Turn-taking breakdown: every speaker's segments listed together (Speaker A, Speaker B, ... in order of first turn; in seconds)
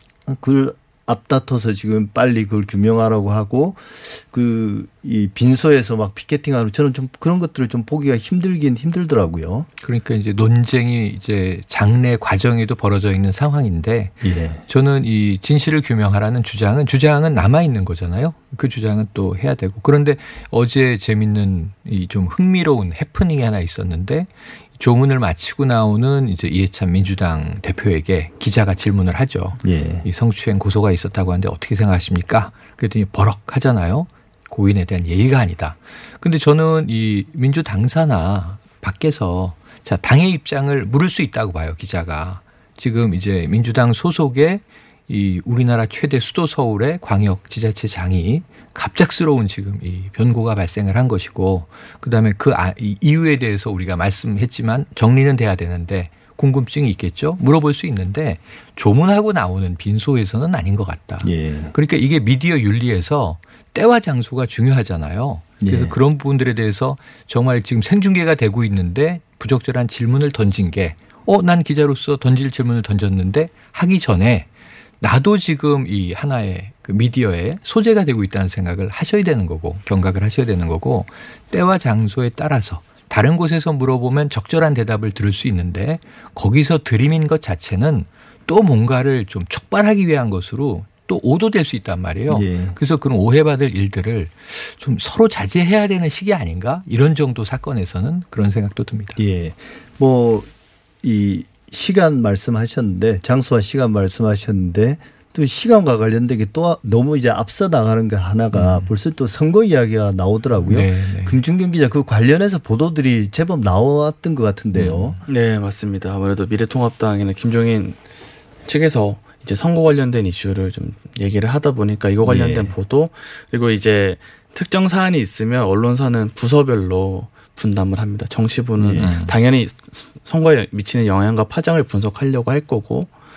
Speaker A: 0.3-9.7, 14.2-14.6, 29.6-30.1, 61.2-61.7, 65.6-66.0, 92.3-92.8, 99.2-100.5, 101.0-115.2, 122.2-122.7, 128.8-129.1
Speaker B: 9.8-74.5, 75.0-99.2, 108.5-108.9, 110.7-111.4, 114.7-115.2, 129.0-129.4
Speaker C: 115.3-118.0, 118.7-133.1